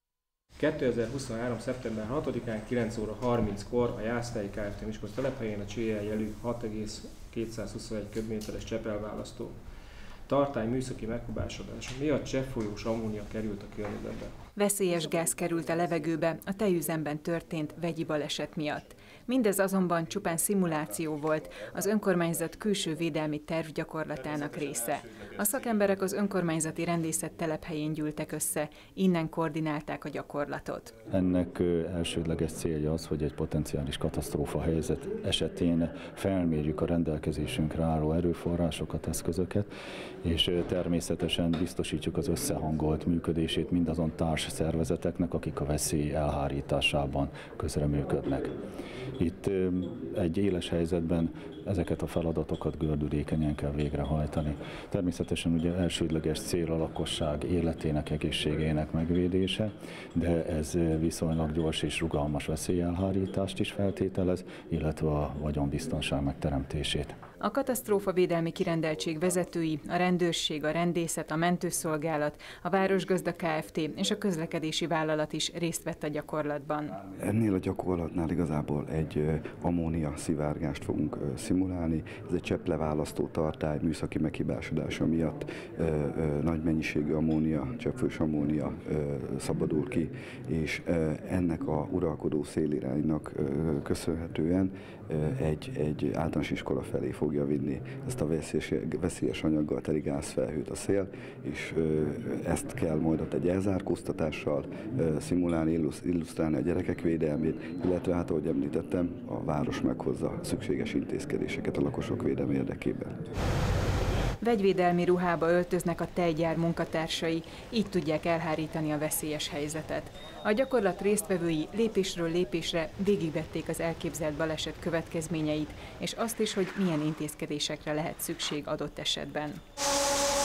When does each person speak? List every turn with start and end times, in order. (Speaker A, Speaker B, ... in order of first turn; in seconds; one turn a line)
Speaker A: 0.6-9.5
Speaker A: 10.3-14.3
Speaker B: 14.6-31.0
Speaker C: 31.1-39.7
Speaker C: 40.2-48.5
Speaker C: 49.2-67.2
Speaker B: 67.4-77.0
Speaker D: 77.2-113.1
Speaker B: 114.4-129.6